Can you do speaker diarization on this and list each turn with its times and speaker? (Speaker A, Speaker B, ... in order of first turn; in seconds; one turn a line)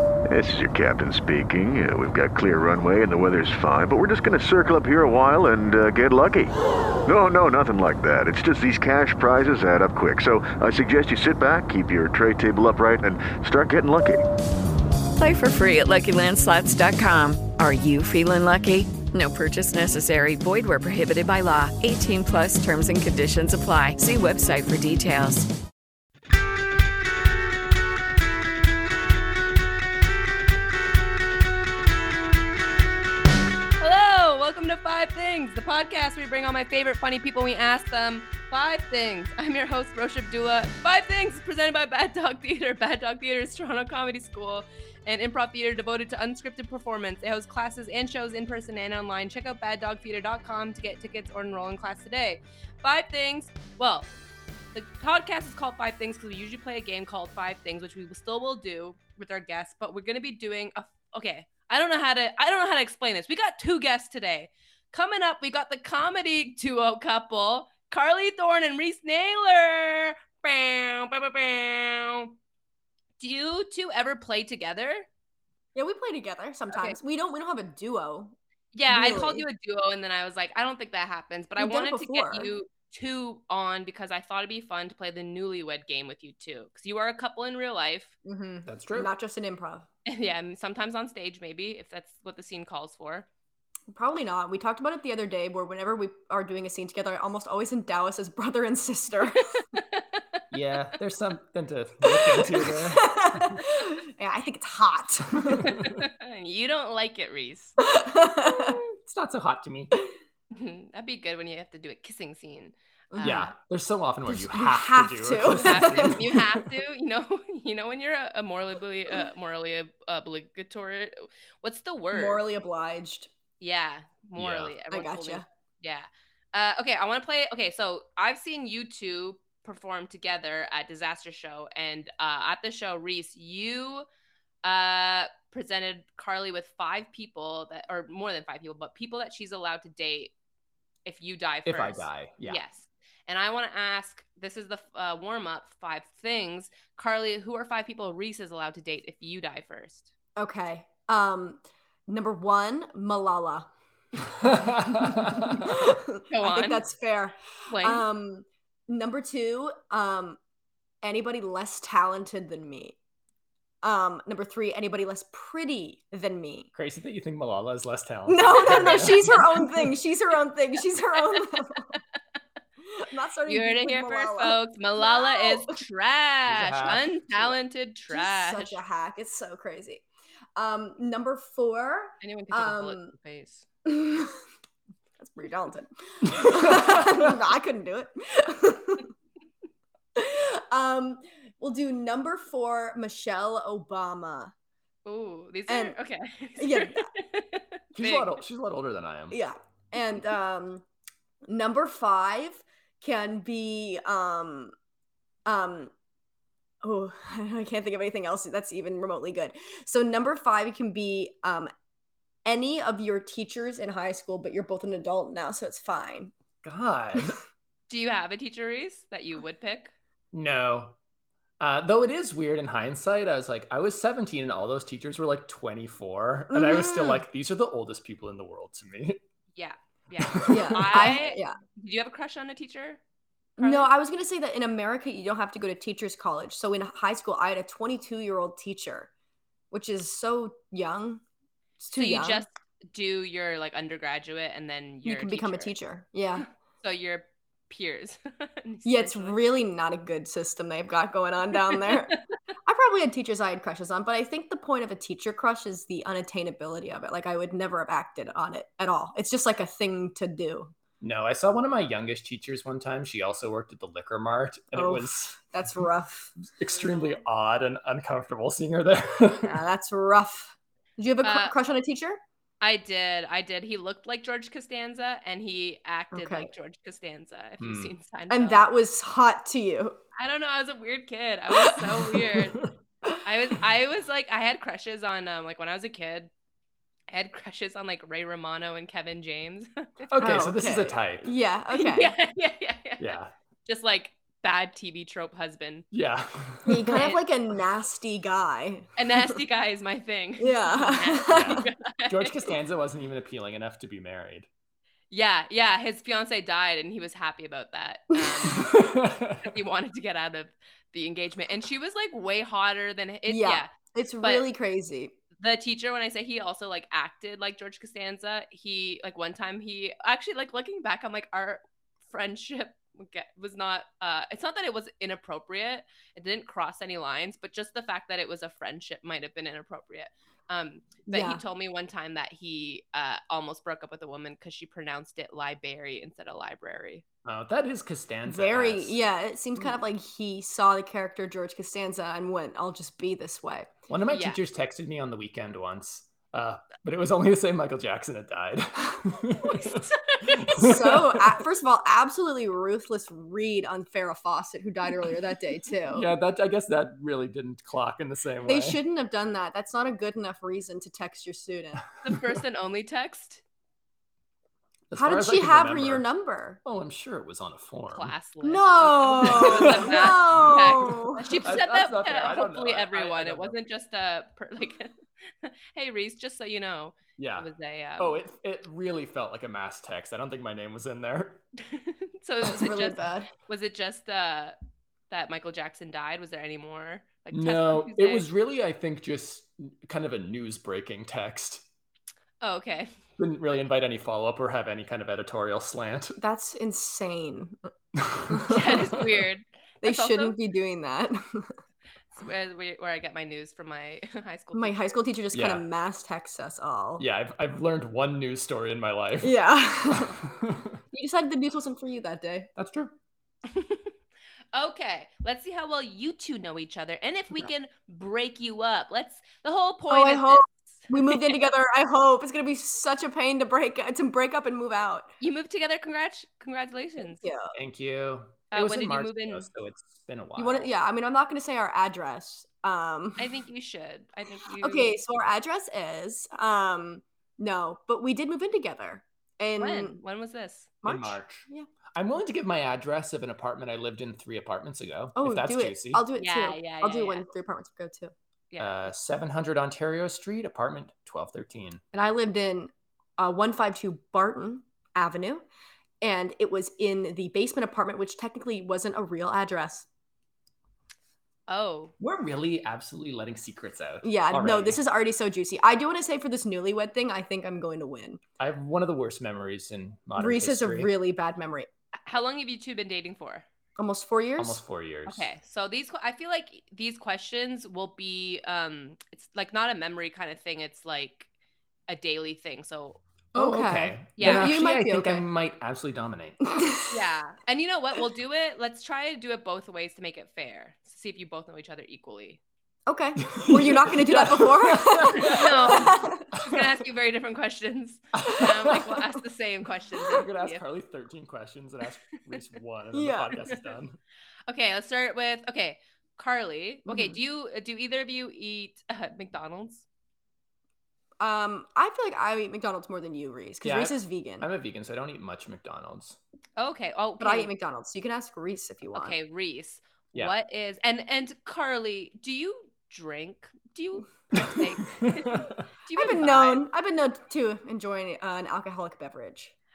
Speaker A: 0.3-6.5
Speaker A: 7.0-14.2
Speaker B: 15.2-25.5
Speaker C: 33.8-54.1
Speaker C: 54.7-72.3
Speaker C: 73.2-75.0
Speaker D: 75.7-78.3
Speaker C: 76.7-77.0
Speaker C: 78.7-88.1
Speaker D: 78.9-79.4
Speaker D: 81.6-82.5
Speaker D: 88.2-89.9
Speaker E: 88.7-89.1
Speaker C: 90.0-93.3
Speaker D: 93.9-99.5
Speaker C: 99.5-100.4
Speaker E: 100.5-103.6
Speaker D: 102.1-105.7
Speaker E: 105.5-105.9
Speaker C: 105.6-107.8
Speaker D: 107.8-108.8
Speaker E: 109.0-110.0
Speaker C: 110.5-113.5
Speaker D: 113.1-113.5
Speaker E: 113.2-116.2
Speaker D: 114.3-116.6
Speaker C: 115.6-122.4
Speaker D: 122.1-123.3
Speaker C: 123.6-134.1
Speaker E: 124.4-124.7
Speaker D: 124.9-125.4
Speaker C: 134.6-140.3
Speaker C: 141.1-150.1
Speaker E: 141.7-142.6
Speaker D: 150.3-153.7
Speaker E: 154.4-155.7
Speaker D: 154.6-160.4
Speaker C: 156.3-156.8
Speaker C: 157.7-158.0
Speaker D: 161.0-162.9
Speaker D: 163.8-166.7
Speaker E: 166.7-169.6
Speaker D: 168.3-171.9
Speaker D: 172.9-175.7
Speaker C: 173.5-178.8
Speaker E: 176.5-177.5
Speaker D: 178.1-180.0
Speaker D: 180.6-183.1
Speaker C: 182.2-183.7
Speaker D: 183.8-184.4
Speaker D: 185.2-189.1
Speaker E: 186.3-187.3
Speaker D: 190.1-194.5
Speaker C: 195.0-198.4
Speaker D: 195.7-196.0
Speaker D: 196.6-197.1
Speaker E: 197.9-199.4
Speaker D: 199.3-200.8
Speaker D: 201.4-204.7
Speaker D: 205.4-205.9
Speaker D: 206.8-211.7
Speaker D: 212.4-216.3
Speaker E: 216.6-217.4
Speaker C: 217.9-219.9
Speaker E: 220.3-220.9
Speaker E: 221.6-229.2
Speaker D: 226.5-227.2
Speaker C: 229.6-233.0
Speaker E: 230.2-231.1
Speaker D: 230.5-231.6
Speaker C: 233.6-233.9
Speaker D: 233.6-239.1
Speaker D: 239.7-241.2
Speaker D: 241.8-242.4
Speaker C: 241.9-245.7
Speaker D: 245.0-246.4
Speaker C: 246.8-249.5
Speaker D: 248.8-260.7
Speaker E: 261.0-265.4
Speaker D: 264.7-266.3
Speaker E: 266.5-269.6
Speaker C: 266.7-267.2
Speaker D: 269.4-272.2
Speaker C: 271.2-271.5
Speaker C: 272.6-278.7
Speaker D: 276.1-276.5
Speaker E: 277.6-277.9
Speaker D: 278.3-280.0
Speaker C: 280.2-282.6
Speaker E: 282.1-282.7
Speaker C: 283.2-286.3
Speaker C: 287.1-290.3
Speaker E: 290.1-291.3
Speaker D: 290.2-292.1
Speaker C: 291.7-295.8
Speaker E: 293.0-293.3
Speaker E: 295.9-297.0
Speaker D: 296.6-299.4
Speaker C: 299.0-302.5
Speaker D: 300.4-301.6
Speaker E: 301.3-304.5
Speaker C: 305.1-308.7
Speaker E: 308.5-309.5
Speaker C: 309.4-314.5
Speaker D: 313.3-315.1
Speaker C: 315.4-337.0
Speaker D: 331.1-331.4
Speaker E: 337.2-339.0
Speaker D: 338.3-343.7
Speaker E: 343.9-351.4
Speaker C: 344.1-344.4
Speaker C: 349.6-350.2
Speaker D: 350.5-356.1
Speaker E: 355.9-358.8
Speaker D: 358.4-361.8
Speaker C: 362.0-363.4
Speaker E: 364.9-366.0
Speaker D: 364.9-366.6
Speaker E: 366.6-368.1
Speaker C: 367.9-378.2
Speaker D: 368.4-371.3
Speaker E: 369.2-370.6
Speaker E: 371.4-373.5
Speaker E: 377.2-381.4
Speaker C: 381.6-384.6
Speaker D: 382.4-383.3
Speaker C: 385.1-388.3
Speaker E: 387.3-391.6
Speaker C: 392.4-392.9
Speaker E: 393.2-396.2
Speaker D: 396.2-397.6
Speaker E: 397.9-399.0
Speaker D: 398.3-398.6
Speaker C: 398.5-400.4
Speaker D: 399.8-401.5
Speaker C: 402.1-404.8
Speaker D: 404.5-407.0
Speaker E: 405.3-405.6
Speaker E: 407.0-410.8
Speaker D: 409.2-410.2
Speaker D: 410.9-412.5
Speaker E: 412.6-412.9
Speaker C: 413.5-413.9
Speaker C: 414.5-421.1
Speaker D: 419.9-425.1
Speaker C: 425.2-427.3
Speaker D: 427.2-427.5
Speaker E: 427.5-430.7
Speaker C: 428.5-429.5
Speaker D: 430.4-433.3
Speaker C: 433.2-435.0
Speaker D: 434.6-440.0
Speaker C: 439.6-440.7
Speaker D: 440.8-441.7
Speaker E: 440.8-446.0
Speaker D: 445.1-448.1
Speaker C: 446.1-447.2
Speaker C: 448.5-448.9
Speaker E: 448.6-451.8
Speaker D: 451.9-455.4
Speaker D: 456.0-459.9
Speaker C: 461.5-461.9
Speaker E: 462.0-464.8
Speaker D: 464.0-468.2
Speaker E: 468.4-470.9
Speaker D: 470.1-471.7
Speaker C: 472.1-473.4
Speaker D: 473.8-474.6
Speaker E: 474.4-475.3
Speaker C: 475.1-481.3
Speaker C: 481.9-483.0
Speaker E: 483.3-486.4
Speaker D: 483.3-485.2
Speaker C: 484.2-484.5
Speaker D: 486.4-486.9
Speaker C: 486.9-492.4
Speaker D: 492.9-496.2
Speaker E: 493.2-496.6
Speaker C: 495.1-500.6
Speaker E: 498.1-498.9
Speaker E: 500.1-504.0
Speaker D: 502.9-503.4
Speaker C: 503.4-503.7
Speaker C: 504.5-509.8
Speaker D: 506.9-507.2
Speaker D: 511.2-514.5
Speaker E: 513.6-516.2
Speaker C: 516.6-517.5
Speaker D: 517.2-519.1
Speaker C: 518.9-526.6
Speaker E: 524.4-525.6
Speaker D: 525.9-529.5